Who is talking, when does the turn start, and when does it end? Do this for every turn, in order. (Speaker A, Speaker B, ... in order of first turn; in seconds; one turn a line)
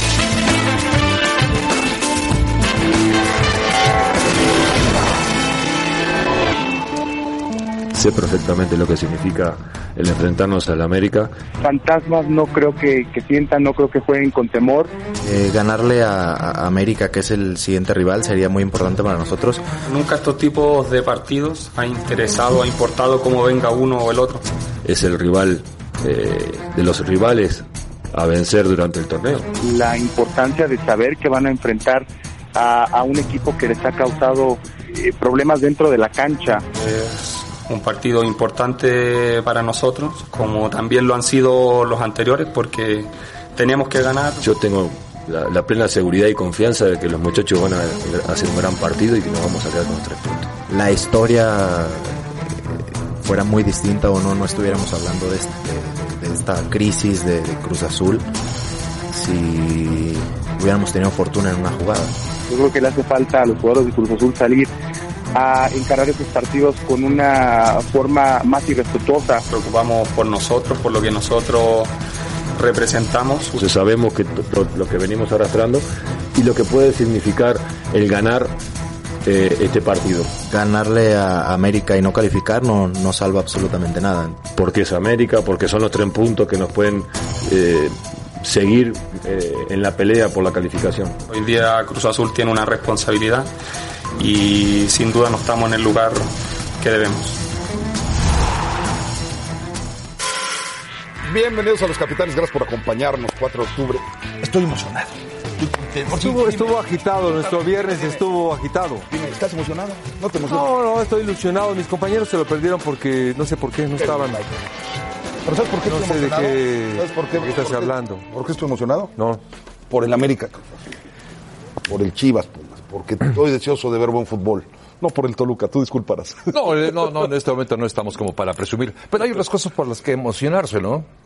Speaker A: 7.9-11.3
Speaker B: 11.6-14.9
Speaker C: 15.2-19.6
Speaker D: 19.9-24.4
Speaker A: 24.8-29.5
Speaker B: 29.6-36.6
Speaker D: 36.8-44.4
Speaker A: 44.4-50.5
Speaker C: 50.7-52.2
Speaker C: 53.2-58.2
Speaker C: 59.1-62.1
Speaker B: 62.5-64.7
Speaker B: 65.3-69.4
Speaker D: 69.5-71.9
Speaker D: 72.6-73.7
Speaker A: 73.6-78.5
Speaker A: 79.2-80.3
Speaker C: 80.5-84.4
Speaker A: 84.5-91.2
Speaker D: 91.3-93.5
Speaker D: 94.2-97.4
Speaker E: 101.2-108.3
Speaker F: 106.1-109.1
Speaker E: 109.1-110.7
Speaker F: 110.5-114.5
Speaker E: 114.0-114.4
Speaker E: 115.5-119.1
Speaker F: 115.8-118.2
Speaker E: 119.9-120.6
Speaker E: 121.9-126.6
Speaker G: 126.5-131.1